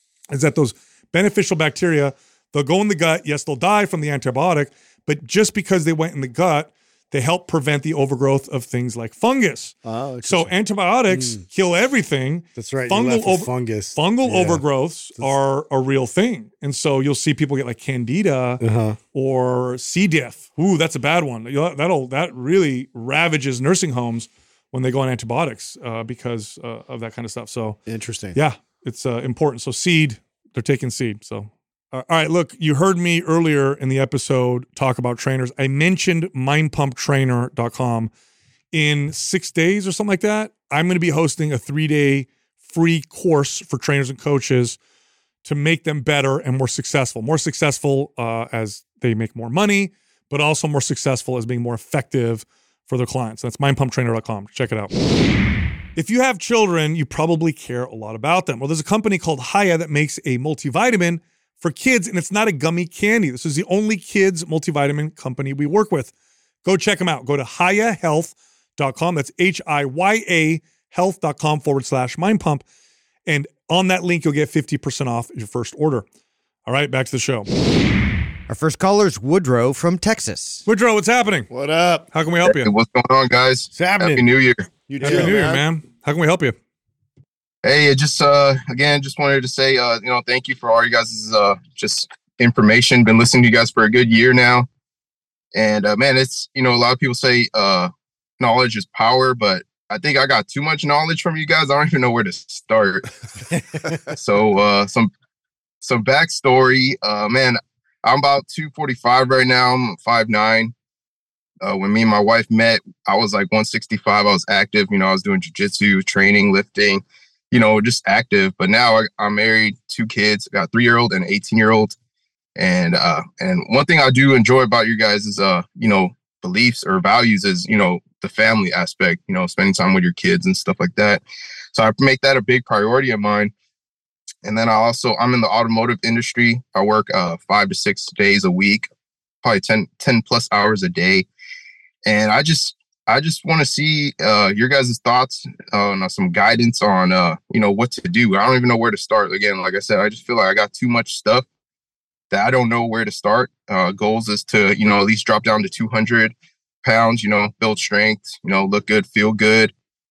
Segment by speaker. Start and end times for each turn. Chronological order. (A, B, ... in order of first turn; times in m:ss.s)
0:00.3-0:18.6 A
0:09.8-0:10.5 B
0:11.1-0:11.4 C
0:12.6-0:14.6 C
0:18.6-0:19.0 C
0:19.1-0:27.8 A
0:27.9-0:28.4 B
0:28.3-0:38.1 A
0:38.7-0:44.8 A
0:45.4-0:54.9 A
0:56.0-1:06.1 A
1:06.6-1:12.6 A
1:13.3-1:16.0 A
1:16.7-1:17.5 A
1:18.5-1:20.6 D
1:20.7-1:21.5 A
1:21.5-1:22.1 B
1:22.1-1:22.7 A
1:22.4-1:24.7 E
1:23.7-1:24.2 C
1:24.9-1:25.6 B
1:25.0-1:26.6 A
1:27.6-1:34.7 E
1:35.5-1:43.1 E
1:43.6-1:44.0 C
1:44.1-1:45.1 E
1:45.8-1:50.7 E
1:51.6-2:02.0 E
2:02.6-2:11.2 E
2:11.7-2:13.5 E
2:14.4-2:18.9 E
2:19.4-2:21.3 E
2:22.0-2:31.4 E
2:32.3-2:39.7 E